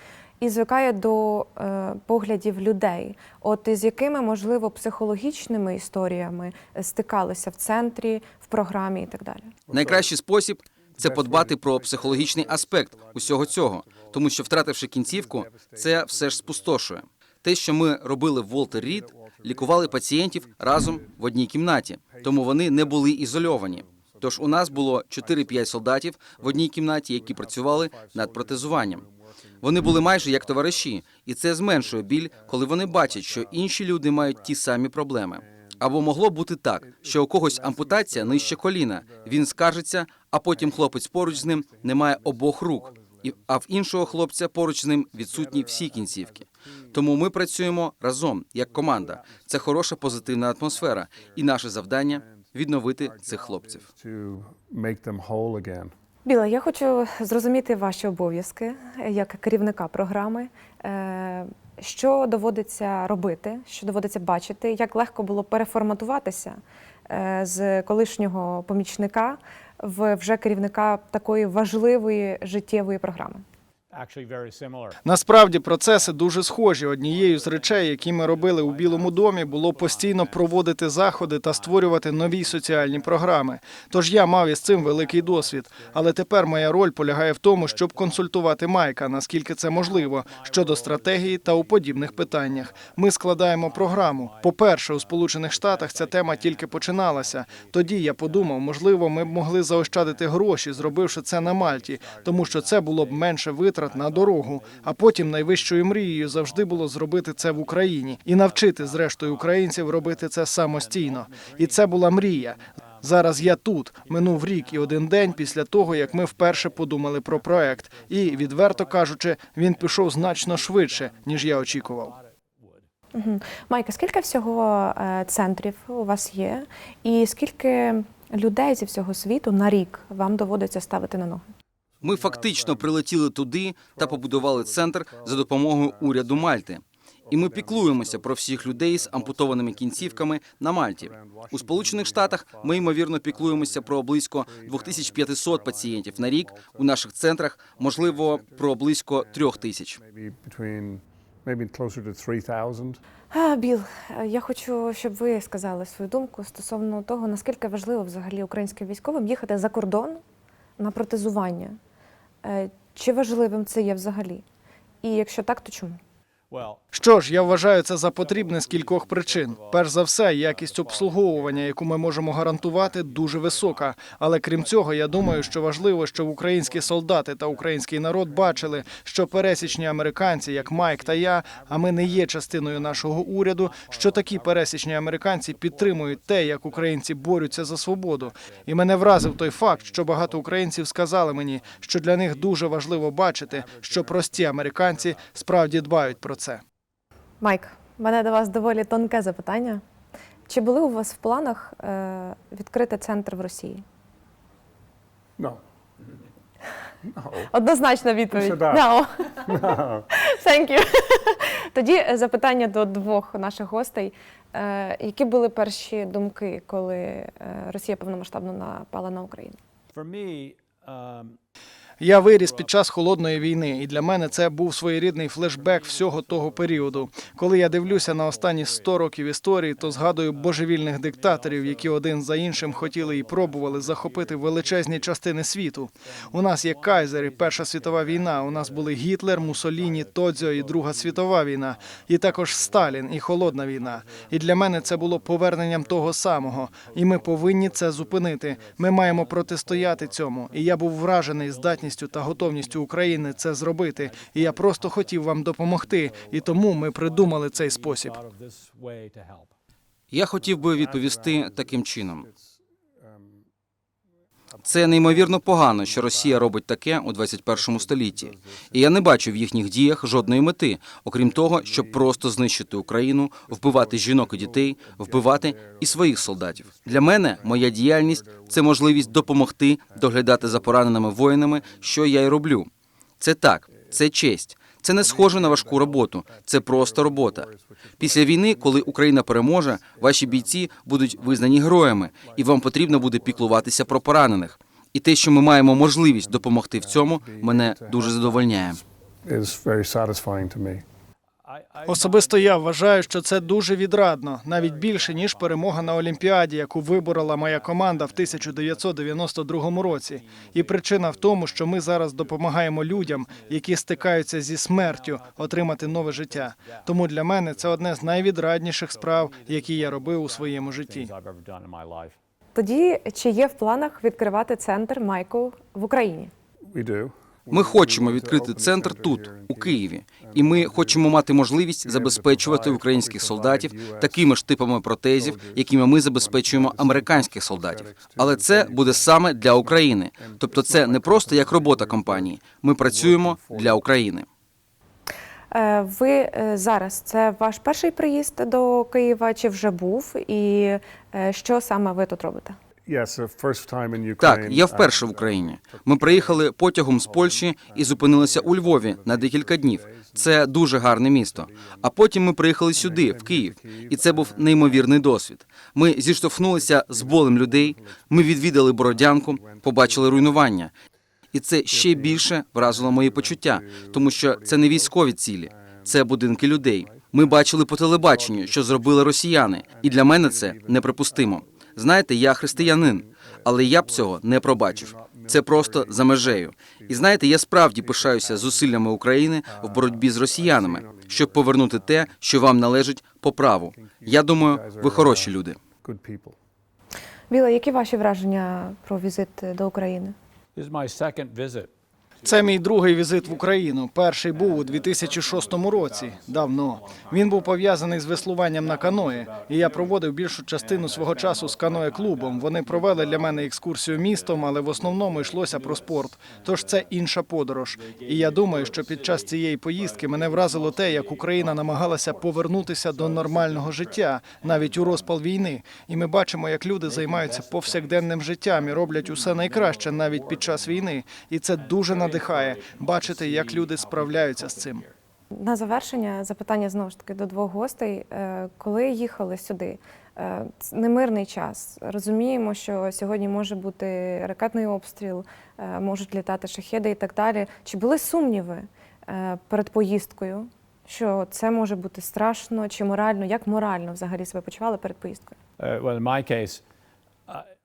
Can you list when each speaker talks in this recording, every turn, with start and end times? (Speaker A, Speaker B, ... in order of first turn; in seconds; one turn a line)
Speaker A: 0.4-9.5
Speaker B: 9.7-10.1
Speaker C: 9.7-29.0
Speaker B: 10.9-16.9
Speaker B: 18.4-36.1
Speaker C: 29.6-53.9
Speaker B: 36.8-39.8
Speaker B: 40.5-44.4
Speaker B: 45.0-47.3
Speaker B: 48.6-55.9
Speaker A: 56.2-66.6
Speaker A: 67.1-73.4
Speaker D: 73.9-75.0
Speaker E: 75.0-122.1
Speaker D: 75.8-76.2
Speaker D: 77.0-83.6
Speaker D: 84.1-88.5
Speaker D: 89.6-122.9
Speaker A: 123.1-131.4
Speaker B: 132.0-133.1
Speaker C: 132.0-150.0
Speaker B: 133.9-136.7
Speaker B: 137.3-140.4
Speaker B: 140.9-147.1
Speaker B: 147.8-153.0
Speaker A: 153.3-160.2
Speaker A: 160.8-161.8
Speaker A: 162.4-164.4
Speaker A: 165.0-166.0
Speaker D: 166.5-166.8
Speaker E: 166.9-196.6
Speaker D: 167.3-196.4
Speaker A: 197.4-199.8
Speaker A: 200.5-203.8
Speaker B: 207.0-207.5
Speaker A: 207.5-219.6
Speaker B: 208.3-208.8
Speaker B: 209.4-210.1
Speaker D: 219.9-221.4
Speaker E: 222.0-258.2
Speaker D: 222.2-222.8
Speaker D: 223.8-224.3
Speaker D: 225.4-229.1
Speaker D: 229.8-235.2
Speaker D: 236.0-259.5
Speaker C: 260.1-262.2
Speaker B: 260.4-263.4
Speaker B: 264.5-269.6
Speaker C: 264.6-287.5
Speaker B: 270.1-270.4
Speaker B: 271.1-282.6
Speaker B: 283.7-284.0
Speaker B: 284.9-294.6
Speaker C: 288.0-298.8
Speaker B: 295.5-300.8
Speaker D: 301.4-303.8
Speaker E: 301.9-321.1
Speaker D: 304.4-322.1
Speaker A: 322.5-326.3
Speaker B: 326.7-331.2
Speaker C: 327.5-344.2
Speaker B: 331.8-334.4
Speaker B: 335.1-343.8
Speaker A: 345.5-352.6
Speaker B: 352.9-361.9
Speaker C: 354.2-370.7
Speaker B: 362.7-365.1
Speaker B: 366.3-370.6
Speaker C: 371.3-395.6
Speaker B: 371.7-388.9
Speaker B: 389.4-392.1
Speaker B: 393.6-396.4
Speaker A: 397.3-400.1
Speaker D: 400.6-401.7
Speaker E: 402.2-434.8
Speaker D: 402.2-403.5
Speaker D: 404.3-417.0
Speaker D: 417.7-425.2
Speaker D: 426.8-431.0
Speaker D: 431.6-434.9
Speaker A: 435.3-455.3
Speaker D: 455.6-456.6